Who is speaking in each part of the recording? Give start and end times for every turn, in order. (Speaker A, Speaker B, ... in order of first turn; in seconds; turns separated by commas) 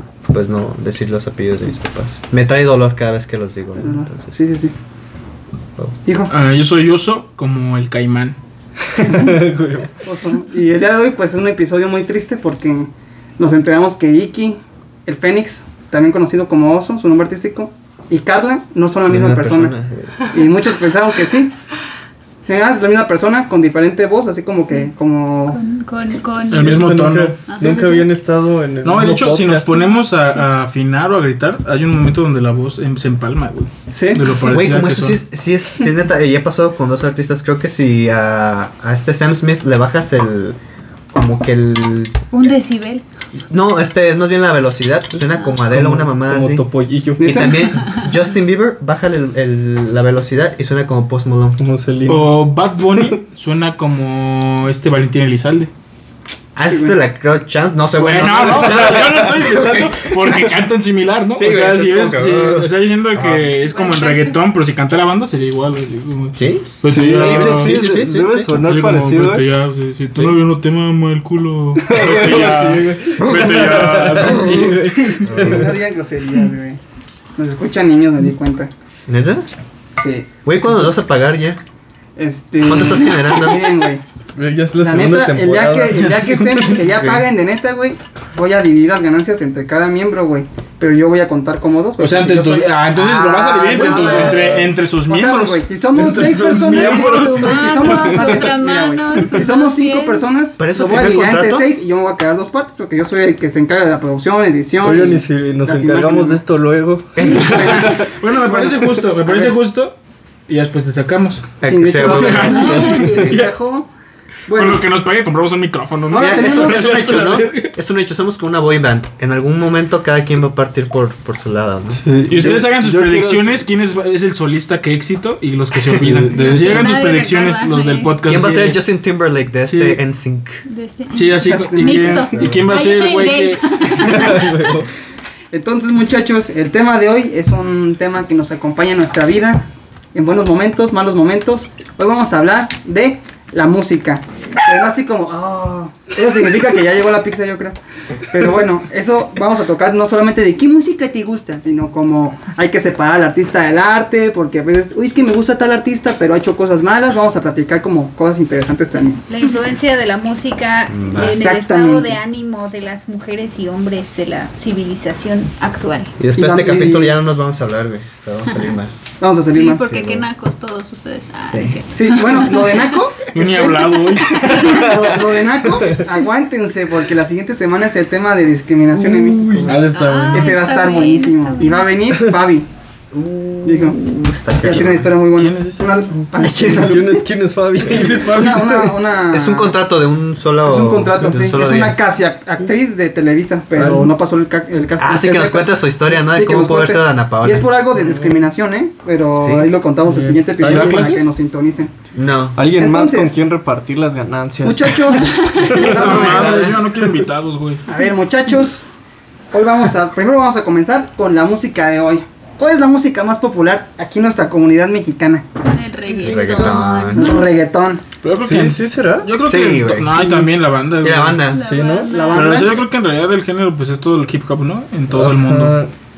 Speaker A: 0.3-4.3, Speaker B: 3.8-4.7, Speaker B: 6.0-6.3, Speaker C: 6.3-8.4, Speaker D: 8.8-9.9, Speaker B: 10.0-19.7, Speaker A: 19.1-20.2, Speaker B: 20.3-21.5, Speaker B: 22.4-25.6, Speaker E: 25.5-26.8, Speaker D: 26.4-29.9, Speaker C: 26.5-27.3, Speaker E: 27.4-28.1, Speaker C: 28.8-35.2, Speaker B: 33.9-34.3, Speaker A: 34.5-40.6, Speaker A: 41.1-42.1, Speaker E: 42.3-43.0, Speaker A: 43.5-46.6, Speaker D: 45.7-47.5, Speaker B: 47.2-47.8, Speaker A: 47.2-51.6, Speaker D: 51.6-52.3, Speaker C: 52.1-55.7, Speaker A: 56.5-60.1, Speaker B: 56.6-56.9, Speaker C: 57.9-67.8, Speaker D: 58.6-59.1, Speaker A: 61.3-63.5, Speaker E: 63.7-64.4, Speaker A: 66.3-68.5, Speaker D: 66.9-69.5, Speaker C: 68.5-75.0, Speaker D: 71.8-75.7, Speaker A: 75.2-75.7, Speaker B: 75.4-76.8, Speaker B: 77.4-78.7, Speaker A: 79.1-79.5, Speaker B: 80.0-80.3, Speaker A: 80.4-81.6, Speaker B: 82.2-84.0, Speaker A: 82.6-83.8, Speaker D: 84.4-87.2, Speaker B: 84.8-106.4, Speaker C: 92.0-95.6, Speaker D: 93.8-94.7, Speaker D: 95.9-98.4, Speaker C: 96.6-97.8, Speaker E: 97.3-100.3, Speaker A: 100.6-101.7, Speaker D: 104.8-108.0, Speaker A: 107.2-108.0, Speaker B: 107.2-109.5, Speaker C: 107.6-109.9, Speaker C: 110.5-111.5, Speaker A: 111.6-113.1, Speaker B: 111.6-113.9, Speaker C: 112.0-113.5, Speaker E: 112.5-112.9, Speaker B: 114.5-114.8, Speaker C: 114.5-117.7, Speaker B: 116.1-117.1, Speaker A: 116.1-122.0, Speaker D: 122.0-123.6, Speaker C: 122.3-128.8, Speaker D: 125.8-126.9, Speaker E: 126.3-128.1, Speaker A: 128.2-130.6, Speaker C: 129.7-130.0, Speaker E: 130.7-134.8, Speaker C: 131.1-133.9, Speaker B: 131.4-132.3, Speaker A: 132.4-132.6, Speaker D: 134.0-134.9, Speaker B: 135.5-147.8, Speaker B: 148.3-159.2, Speaker E: 159.3-166.1, Speaker A: 160.9-161.5, Speaker B: 161.2-162.2, Speaker A: 166.2-168.9, Speaker B: 166.3-167.2, Speaker B: 169.2-169.8, Speaker E: 169.5-172.9, Speaker A: 169.8-170.3, Speaker A: 171.4-171.8, Speaker B: 171.9-179.8, Speaker C: 173.3-174.9, Speaker E: 174.3-174.8, Speaker D: 174.6-174.9, Speaker D: 178.9-180.6, Speaker C: 179.7-180.3, Speaker E: 179.9-181.9, Speaker B: 180.3-182.7, Speaker A: 183.1-185.1, Speaker B: 183.6-184.0, Speaker B: 184.6-187.2, Speaker C: 185.3-186.2, Speaker D: 186.3-188.9, Speaker C: 187.8-188.8, Speaker B: 188.2-189.8, Speaker A: 189.2-192.0, Speaker B: 190.6-201.9, Speaker D: 193.8-194.1, Speaker A: 195.0-197.7, Speaker D: 198.0-198.5, Speaker A: 199.4-199.7, Speaker D: 200.1-201.1, Speaker C: 200.6-201.2, Speaker A: 202.1-202.6, Speaker D: 202.5-206.8, Speaker B: 202.7-203.4, Speaker B: 204.6-206.8, Speaker E: 205.5-205.8, Speaker C: 205.7-207.8, Speaker B: 207.9-208.8, Speaker B: 209.5-215.5, Speaker E: 215.7-217.5, Speaker A: 216.2-217.4, Speaker B: 217.1-218.0, Speaker C: 218.2-221.4, Speaker D: 218.4-219.3, Speaker A: 219.5-221.6, Speaker E: 221.5-222.8, Speaker D: 221.5-222.1, Speaker B: 222.1-222.8, Speaker C: 222.3-225.8, Speaker D: 225.1-225.9